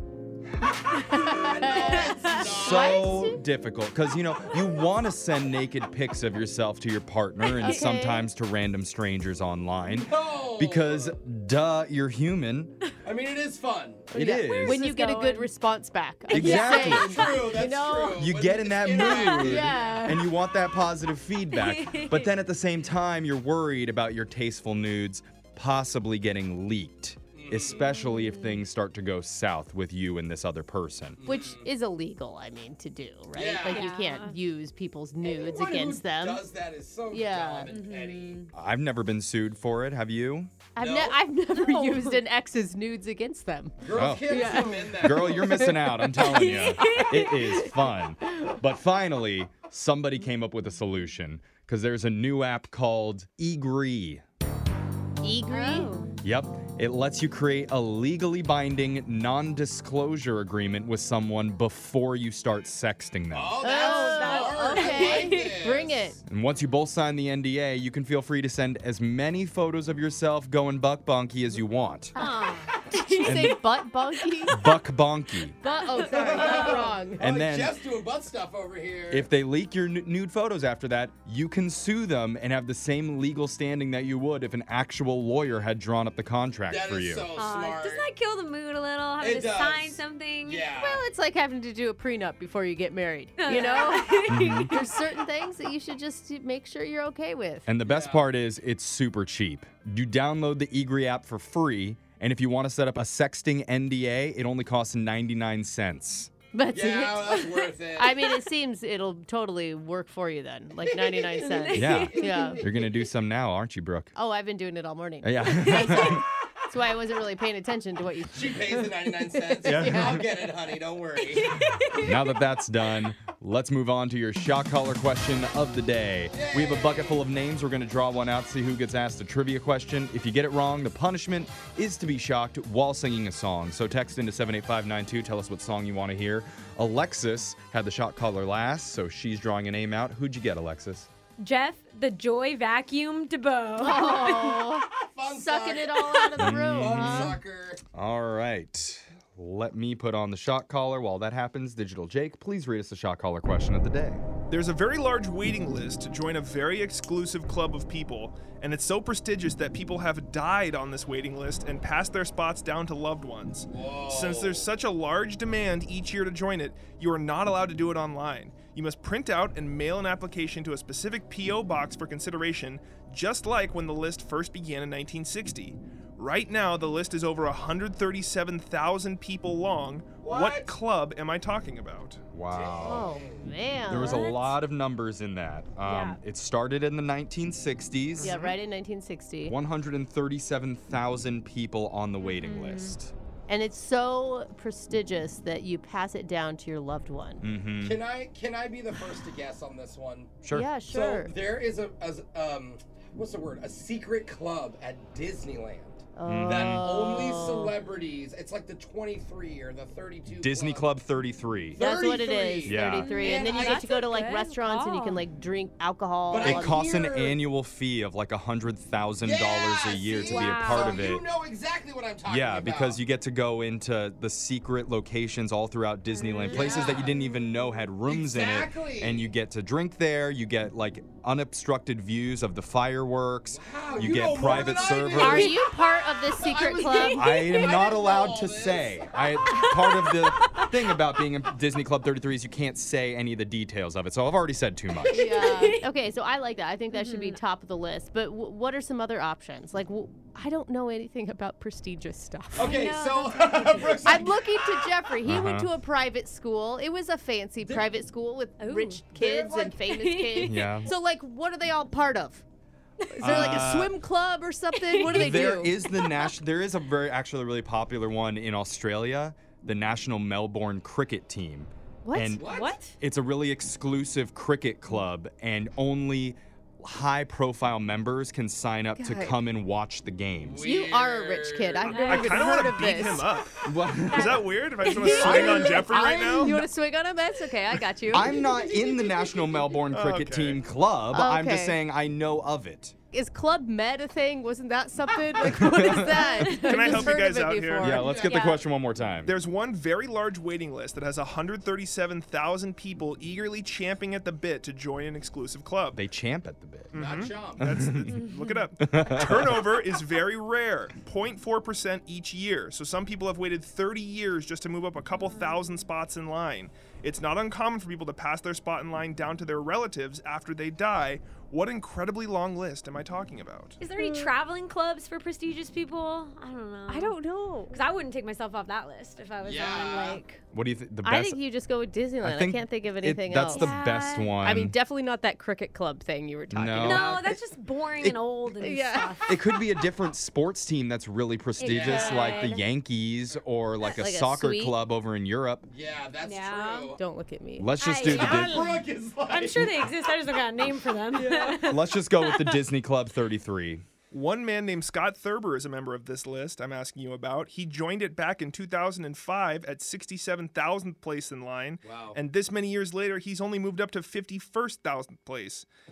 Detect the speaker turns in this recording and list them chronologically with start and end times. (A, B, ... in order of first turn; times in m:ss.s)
0:01.1-0:03.4 A
0:01.3-0:03.2 B
0:01.7-0:02.4 C
0:02.3-0:12.8 D
0:07.6-0:08.3 A
0:09.8-0:11.2 B
0:13.0-0:14.1 B
0:14.1-0:18.3 A
0:14.1-0:14.8 D
0:14.4-0:15.5 C
0:16.3-0:17.5 D
0:16.3-0:20.1 B
0:18.1-0:31.2 D
0:19.0-0:19.4 C
0:19.4-0:20.2 A
0:21.5-0:22.3 C
0:27.3-0:27.9 B
0:28.1-0:28.6 C
0:31.2-0:31.7 B
0:31.2-0:36.5 A
0:33.3-0:33.9 B
0:33.6-0:34.4 C
0:35.2-0:38.5 B
0:37.1-0:37.7 A
0:37.7-0:38.5 C
0:38.5-0:40.5 D
0:40.8-0:46.8 A
0:40.8-0:41.2 B
0:41.5-0:42.2 C
0:43.8-0:45.8 B
0:43.9-0:54.2 D
0:46.0-0:47.9 C
0:55.2-0:55.9 A
0:55.5-0:56.1 C
0:56.2-1:03.8 D
1:03.3-1:06.1 B
1:03.6-1:06.2 A
1:03.7-1:05.5 C
1:06.3-1:12.2 D
1:12.2-1:13.6 C
1:12.2-1:14.7 A
1:13.2-1:13.6 D
1:14.5-1:15.6 D
1:15.6-1:16.9 C
1:15.6-1:17.3 A
1:16.3-1:19.3 B
1:17.2-1:17.7 D
1:19.1-1:27.3 D
1:26.7-1:28.1 B
1:27.4-1:30.8 C
1:29.2-1:31.0 B
1:30.8-1:37.7 A
1:33.4-1:35.0 C
1:34.3-1:34.7 D
1:37.6-1:46.3 D
1:37.9-1:38.2 B
1:46.5-1:52.7 A
1:46.7-1:48.5 B
1:50.9-1:52.3 B
1:51.5-1:52.6 C
1:51.8-1:54.1 D
1:54.2-1:59.0 A
1:55.2-1:56.2 D
1:58.3-2:01.8 B
1:59.6-2:00.2 D
2:01.3-2:02.2 C
2:02.0-2:21.1 D
2:06.3-2:07.2 B
2:21.4-2:24.6 C
2:23.8-2:27.4 A
2:25.0-2:27.8 B
2:26.4-2:27.4 D
2:27.9-2:34.2 D
2:34.5-3:02.2 E
2:43.7-2:44.7 B
3:00.2-3:00.7 B
3:02.3-3:03.2 D
3:02.5-3:03.5 B
3:02.8-3:04.4 A
3:03.9-3:08.4 D
3:04.0-3:04.5 C
3:05.8-3:06.2 C
3:08.2-3:09.6 A
3:09.5-3:13.1 D
3:12.2-3:13.0 C
3:13.5-3:17.4 A
3:17.4-3:18.0 D
3:17.8-3:30.9 B
3:20.5-3:21.3 A
3:26.2-3:27.8 A
3:26.2-3:26.9 D
3:30.3-3:31.8 D
3:31.7-3:34.1 B
3:31.8-3:36.8 A
3:32.6-3:33.2 D
3:33.0-3:35.2 C
3:36.3-3:37.4 B
3:36.4-3:41.3 D
3:39.2-3:43.0 B
3:40.2-3:41.1 C
3:42.3-3:55.6 D
3:46.1-3:47.0 C
3:46.4-3:47.2 B
3:48.0-3:49.3 B
3:53.5-3:59.4 B
3:55.0-3:57.4 A
3:56.8-3:57.7 C
3:57.1-4:05.6 D
3:59.5-4:00.6 C
4:05.0-4:05.8 C
4:05.0-4:12.7 A
4:06.9-4:07.4 C
4:12.6-4:15.0 B
4:12.6-4:13.9 C
4:14.0-4:22.4 A
4:15.2-4:15.7 D
4:17.6-4:17.9 B
4:18.6-4:19.0 C
4:19.2-4:19.8 B
4:19.8-4:20.9 C
4:20.4-4:20.9 D
4:23.2-4:23.4 C
4:23.2-4:25.8 A
4:23.2-4:23.9 D
4:24.7-4:26.3 C
4:25.0-4:40.7 D
4:32.0-4:32.4 A
4:32.4-4:32.8 B
4:32.5-4:33.0 C
4:39.0-4:39.4 A
4:40.4-4:42.2 B
4:40.6-4:43.4 A
4:41.9-4:42.4 C
4:42.0-4:46.6 E
4:43.6-4:44.4 D
4:44.1-4:45.9 C
4:44.8-4:48.3 A
4:45.2-4:45.8 D
4:48.1-4:53.0 D
4:48.2-4:49.8 B
4:49.9-4:50.6 E
4:51.1-4:51.8 A
4:53.1-4:58.3 A
4:55.4-4:57.1 D
4:56.2-4:57.0 C
4:56.6-4:58.0 E
4:57.8-4:59.4 D
4:57.9-4:58.6 B
4:58.2-4:58.6 C
4:59.2-5:06.0 E
5:06.0-5:07.0 D
5:06.9-5:23.8 E
5:07.0-5:07.7 B
5:07.6-5:08.1 D
5:08.1-5:08.6 C
5:08.8-5:09.6 D
5:15.2-5:15.6 C
5:23.8-5:27.2 C
5:24.0-5:24.3 A
5:26.9-5:27.8 A
5:27.7-5:30.4 C
5:29.4-5:30.2 B
5:30.5-5:31.4 D
5:31.0-5:33.8 A
5:32.2-5:34.8 D
5:33.5-5:34.4 C
5:34.4-5:37.4 A
5:36.5-5:37.3 D
5:36.8-5:39.3 C
5:38.6-5:39.4 A
5:39.3-5:45.7 D
5:41.6-5:42.6 C
5:41.7-5:42.4 B
5:43.8-5:44.8 A
5:45.7-5:47.0 B
5:46.2-5:46.9 C
5:47.0-5:48.8 A
5:47.6-5:48.7 D
5:47.8-5:48.4 C
5:48.0-5:49.8 B
5:49.3-5:52.6 C
5:51.1-5:51.6 A
5:51.6-5:53.8 D
5:54.1-6:05.7 E
6:01.8-6:02.2 B